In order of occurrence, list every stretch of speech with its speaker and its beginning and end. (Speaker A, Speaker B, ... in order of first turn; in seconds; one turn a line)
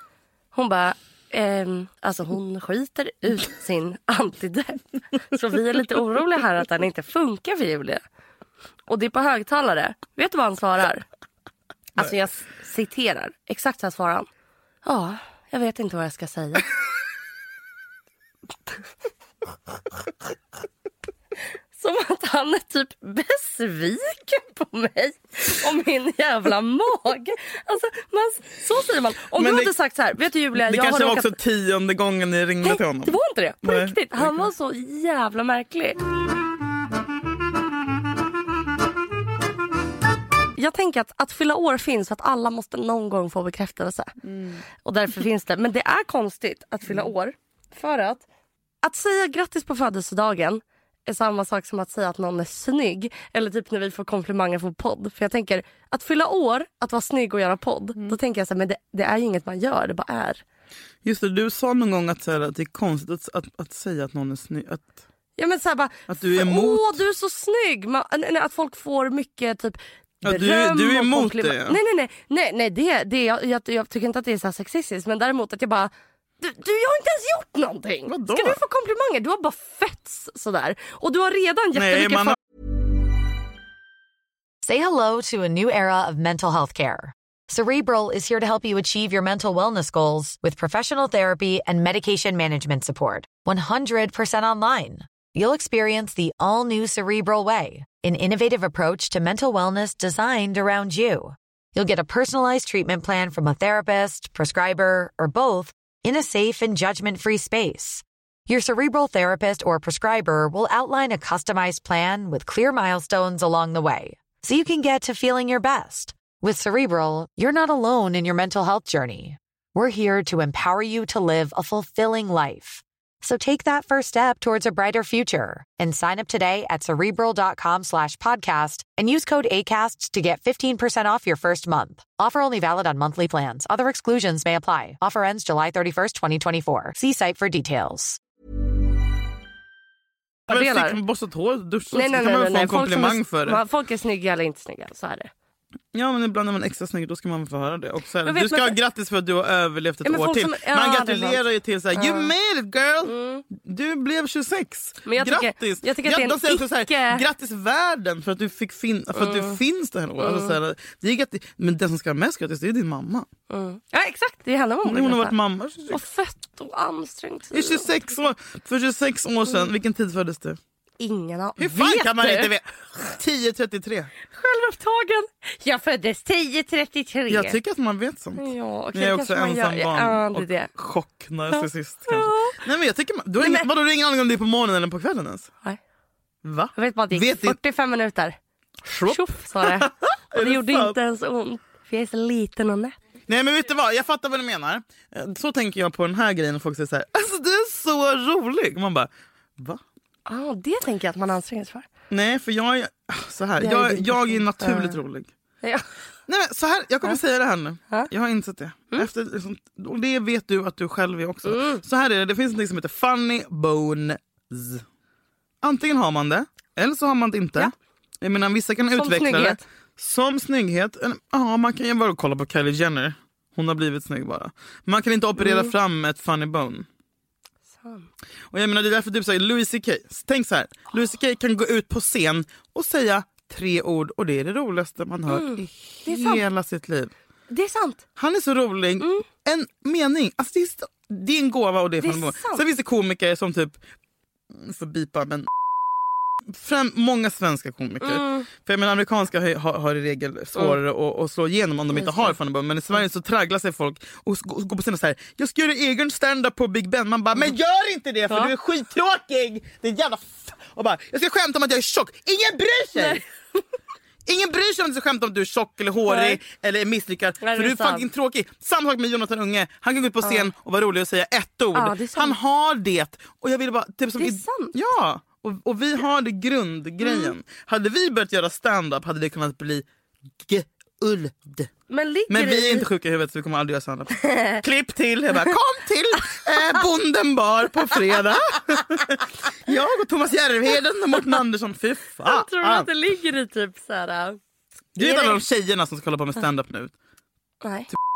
Speaker A: 0.5-8.0
Speaker A: 8.9-11.1
Speaker A: 12.0-14.3
Speaker A: 14.8-16.7
Speaker A: 21.8-31.3
Speaker B: 29.4-29.7
Speaker B: 30.6-34.4
Speaker A: 32.6-36.0
Speaker A: 40.6-44.2
Speaker B: 44.2-44.6
Speaker A: 44.7-48.2
Speaker A: 48.8-60.4
Speaker B: 61.0-64.9
Speaker A: 65.4-82.4
Speaker B: 66.1-67.0
Speaker B: 70.2-71.8
Speaker B: 78.1-78.6
Speaker B: 81.8-82.4
Speaker C: 84.6-138.2
Speaker A: 140.5-141.0
Speaker B: 140.5-143.6
Speaker A: 141.9-145.3
Speaker B: 145.9-163.3
Speaker A: 148.2-148.8
Speaker A: 150.0-151.4
Speaker A: 151.9-152.3
Speaker A: 153.0-153.4
Speaker A: 155.1-157.2
Speaker A: 159.2-159.6
Speaker A: 160.2-160.6
Speaker A: 163.5-165.3
Speaker B: 164.8-166.0
Speaker A: 165.9-167.9
Speaker B: 167.5-170.6
Speaker A: 171.0-172.5
Speaker B: 171.6-174.1
Speaker A: 174.3-177.6
Speaker B: 177.3-185.5
Speaker A: 178.4-180.7
Speaker A: 181.5-182.6
Speaker A: 183.4-183.7
Speaker B: 186.4-187.6
Speaker A: 186.8-188.4
Speaker B: 188.8-191.0
Speaker A: 189.1-193.0
Speaker B: 193.3-199.8
Speaker A: 200.3-201.9
Speaker B: 202.1-205.3
Speaker A: 203.6-205.0
Speaker A: 205.6-205.9
Speaker B: 206.3-214.8
Speaker A: 211.5-211.8
Speaker B: 215.6-226.9
Speaker A: 219.0-219.6
Speaker A: 225.4-225.7
Speaker A: 227.8-228.1
Speaker B: 228.5-237.1
Speaker A: 235.3-236.4
Speaker A: 237.5-238.1
Speaker B: 238.2-243.8
Speaker A: 242.0-242.6
Speaker B: 244.5-245.5
Speaker B: 246.5-263.2
Speaker A: 248.0-248.5
Speaker A: 251.9-252.3
Speaker A: 263.0-263.6
Speaker B: 264.3-279.9
Speaker A: 266.1-266.4
Speaker A: 267.4-268.1
Speaker A: 271.7-272.4
Speaker A: 274.2-274.7
Speaker A: 277.0-277.3
Speaker B: 280.4-281.7
Speaker A: 281.9-282.9
Speaker B: 282.3-292.9
Speaker A: 284.1-284.6
Speaker A: 292.3-294.4
Speaker B: 295.0-296.9
Speaker A: 295.0-295.4
Speaker A: 297.6-297.9